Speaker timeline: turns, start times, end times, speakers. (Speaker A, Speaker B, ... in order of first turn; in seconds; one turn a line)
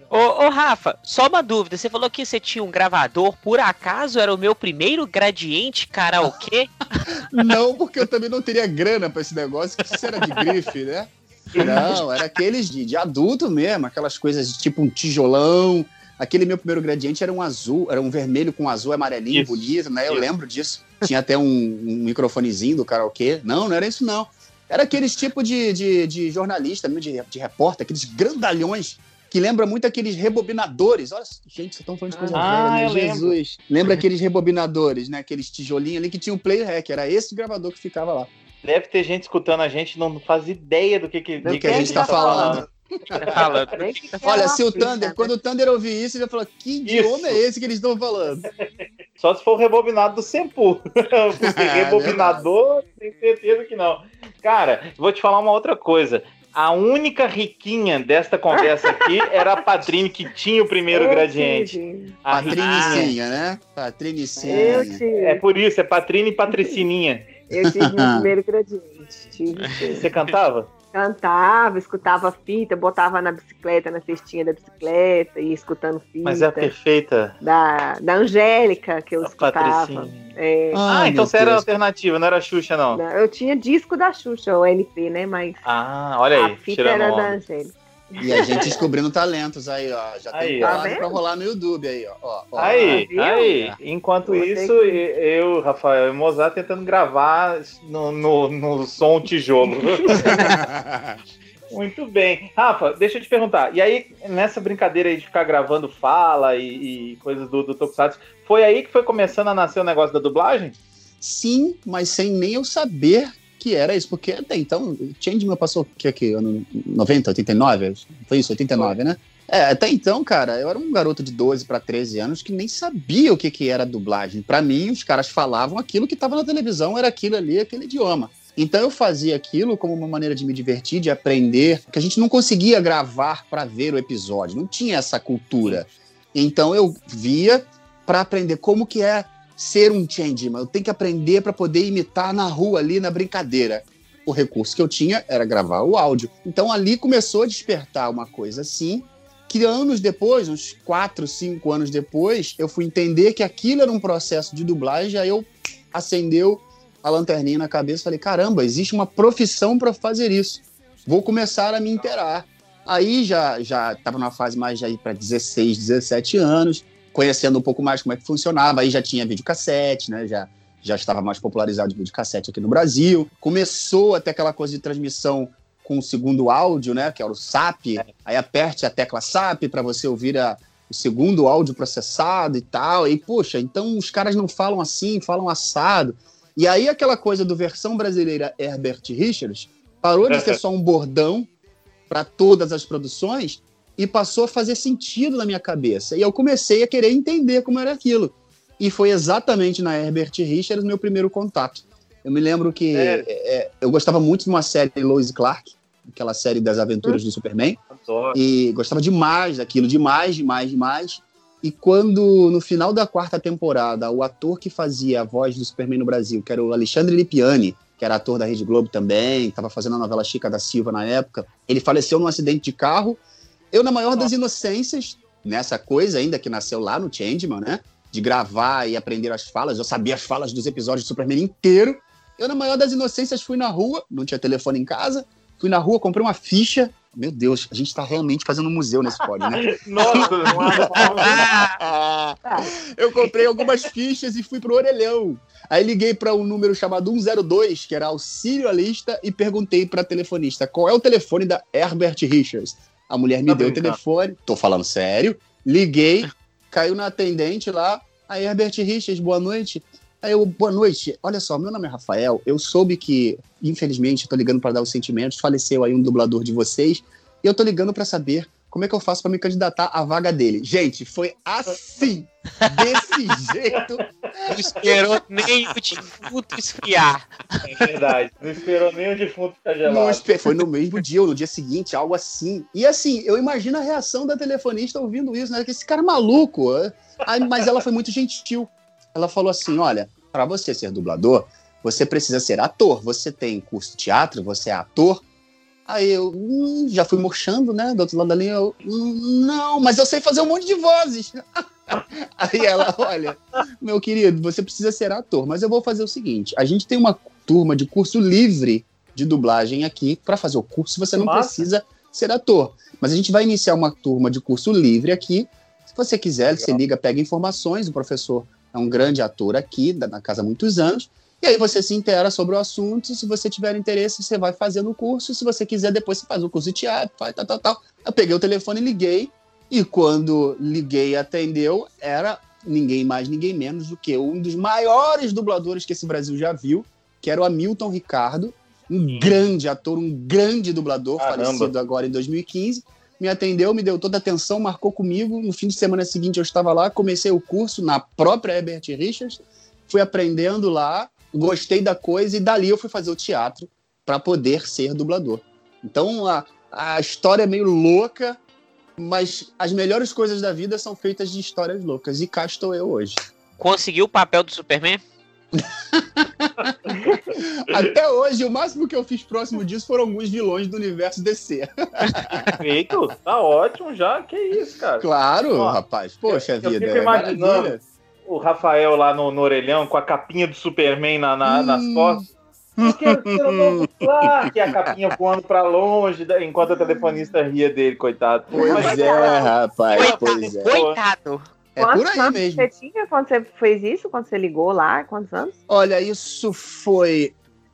Speaker A: 0.1-6.7
Speaker B: 7.2-38.3
Speaker C: 11.5-11.9
Speaker C: 19.3-20.3
Speaker D: 32.1-32.4
Speaker C: 32.3-34.0
Speaker C: 38.6-42.6
Speaker D: 41.4-42.6
Speaker B: 41.4-43.5
Speaker A: 43.2-44.4
Speaker D: 43.4-45.3
Speaker B: 44.2-48.5
Speaker C: 46.8-47.4
Speaker C: 49.2-63.1
Speaker B: 51.4-52.4
Speaker D: 58.5-59.3
Speaker D: 60.9-62.1
Speaker B: 62.3-65.0
Speaker C: 64.5-67.3
Speaker D: 64.5-65.4
Speaker D: 67.5-70.0
Speaker B: 67.6-68.3
Speaker C: 69.9-70.7
Speaker D: 70.9-76.7
Speaker C: 76.2-77.3
Speaker D: 77.4-80.8
Speaker C: 79.2-80.3
Speaker B: 80.7-81.7
Speaker C: 80.8-83.0
Speaker D: 82.9-85.6
Speaker C: 85.6-87.4
Speaker D: 86.3-88.8
Speaker B: 88.2-93.1
Speaker C: 88.4-88.8
Speaker C: 90.3-90.8
Speaker D: 90.6-91.1
Speaker C: 92.6-100.5
Speaker D: 92.6-93.7
Speaker D: 94.2-95.0
Speaker D: 100.0-100.3
Speaker B: 100.2-101.0
Speaker C: 101.7-110.8
Speaker B: 111.2-191.5
Speaker C: 190.3-190.6
Speaker B: 192.1-207.8
Speaker C: 202.9-203.2
Speaker C: 207.9-208.4
Speaker B: 208.3-223.2
Speaker B: 223.7-274.7
Speaker C: 239.4-241.5
Speaker D: 240.0-241.4
Speaker A: 241.4-241.7
Speaker D: 242.4-242.7
Speaker C: 253.5-254.0
Speaker A: 274.5-277.9
Speaker C: 277.6-280.3
Speaker B: 279.9-295.2
Speaker B: 295.9-358.4
Speaker C: 311.2-311.6
Speaker C: 341.2-341.7
Speaker B: 359.0-363.2
Speaker A: 363.6-365.0
Speaker B: 365.5-366.7
Speaker B: 367.3-372.6
Speaker C: 372.6-377.7
Speaker B: 375.0-377.8
Speaker C: 378.2-382.2
Speaker B: 381.4-382.2
Speaker B: 382.8-384.9
Speaker C: 382.8-391.0
Speaker B: 388.5-390.8
Speaker D: 388.6-389.4
Speaker A: 389.9-391.4
Speaker B: 391.8-392.7
Speaker D: 391.8-395.6
Speaker B: 395.7-397.3